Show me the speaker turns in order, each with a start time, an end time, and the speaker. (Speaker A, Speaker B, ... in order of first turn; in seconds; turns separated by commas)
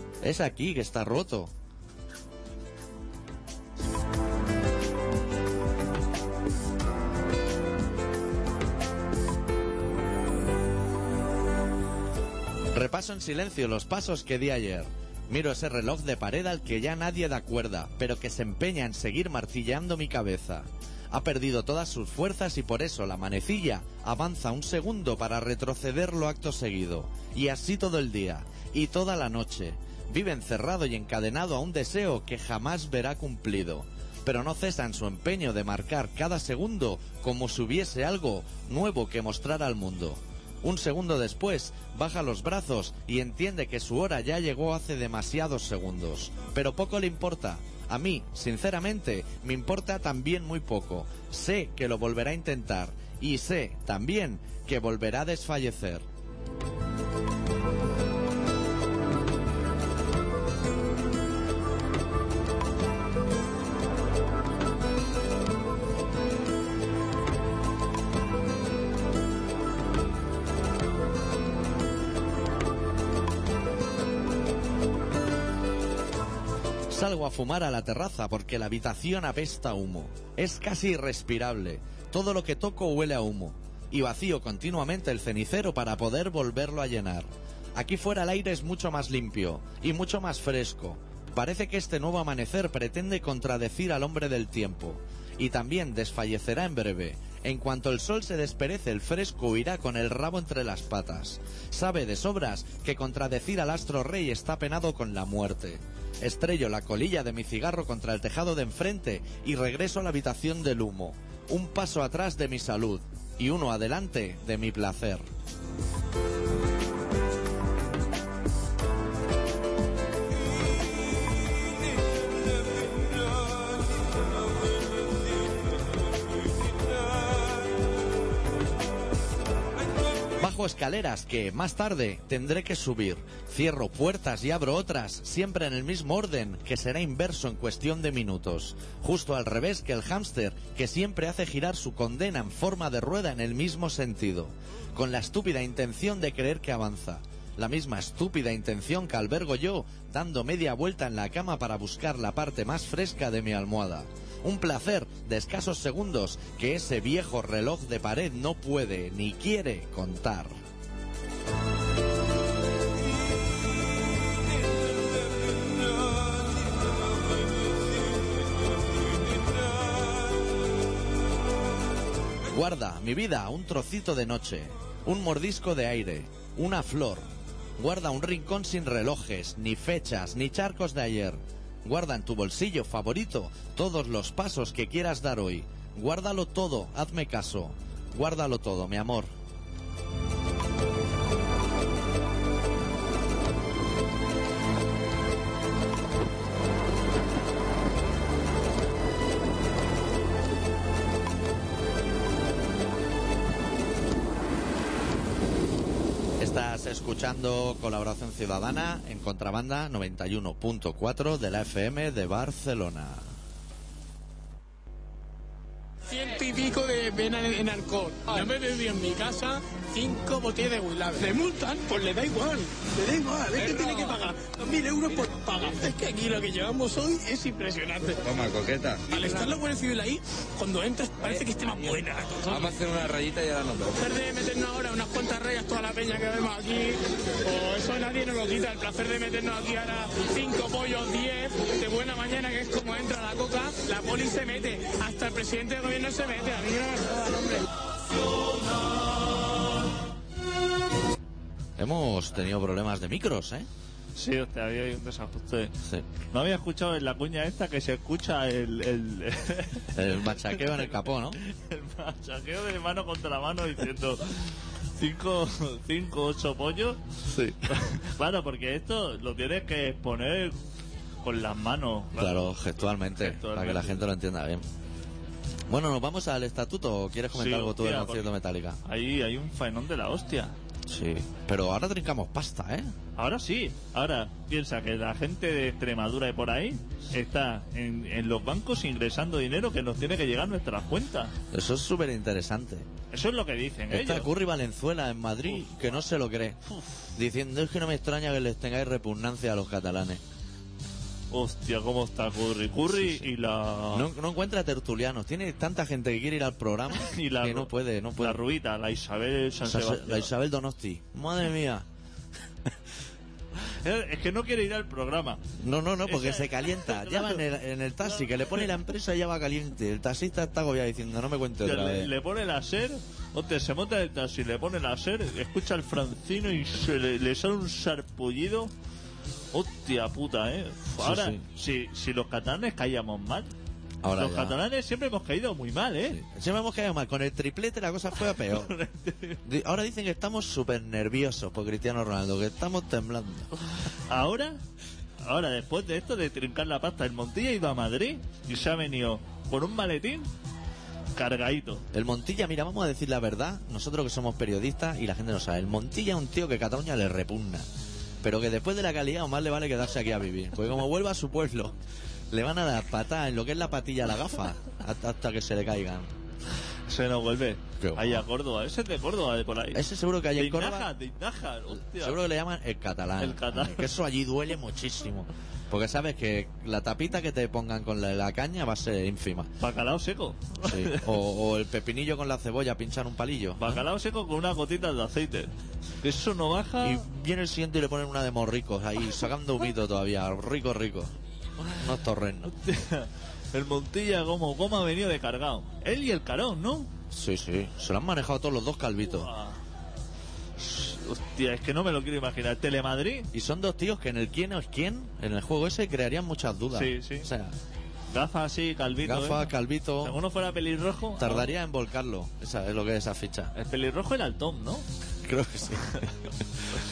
Speaker A: 0.2-1.5, Speaker A: 12.7-56.0, Speaker A: 76.9-115.3, Speaker A: 130.4-160.6, Speaker A: 172.5-189.3, Speaker A: 206.4-213.3, Speaker B: 216.1-228.3, Speaker C: 228.3-229.0, Speaker B: 229.1-232.6, Speaker C: 232.5-233.9, Speaker B: 233.9-247.7, Speaker A: 251.8-253.7, Speaker D: 254.2-255.8, Speaker D: 256.3-267.0, Speaker A: 259.9-261.4, Speaker A: 267.3-267.7, Speaker D: 267.7-270.6, Speaker D: 271.2-274.1, Speaker A: 272.2-274.6, Speaker A: 275.7-278.8, Speaker D: 277.3-278.3, Speaker D: 278.8-280.5, Speaker A: 280.9-282.9, Speaker D: 283.2-291.4, Speaker A: 291.5-292.9, Speaker D: 293.1-294.3, Speaker A: 293.9-296.6, Speaker D: 295.5-295.9, Speaker A: 297.1-300.2, Speaker D: 301.3-304.1, Speaker A: 302.9-303.3, Speaker A: 303.9-308.4, Speaker D: 307.0-310.3, Speaker A: 309.7-311.9, Speaker D: 313.8-315.4, Speaker A: 315.6-322.1, Speaker D: 316.1-317.4, Speaker D: 321.6-328.7, Speaker D: 329.5-333.5, Speaker A: 331.0-331.4, Speaker A: 334.0-334.6, Speaker D: 334.1-336.2, Speaker A: 336.1-338.7, Speaker D: 338.4-339.4, Speaker A: 339.4-343.5, Speaker D: 344.1-344.6, Speaker D: 345.2-350.3, Speaker D: 351.1-351.9, Speaker A: 351.9-357.7, Speaker A: 358.2-361.8, Speaker A: 362.3-366.1, Speaker D: 366.9-372.2, Speaker A: 367.8-368.3, Speaker A: 369.7-370.9, Speaker A: 371.9-379.5, Speaker D: 373.2-373.9, Speaker D: 379.6-381.1, Speaker A: 380.6-383.8, Speaker D: 383.6-387.0, Speaker A: 386.8-391.1, Speaker A: 391.7-392.5, Speaker D: 392.5-396.9, Speaker A: 397.1-399.3, Speaker D: 399.1-399.6, Speaker D: 400.6-403.3, Speaker A: 403.3-407.5, Speaker D: 406.7-407.3, Speaker D: 408.1-411.5, Speaker A: 409.0-410.2, Speaker A: 411.2-413.5, Speaker D: 413.6-414.9, Speaker A: 415.2-416.4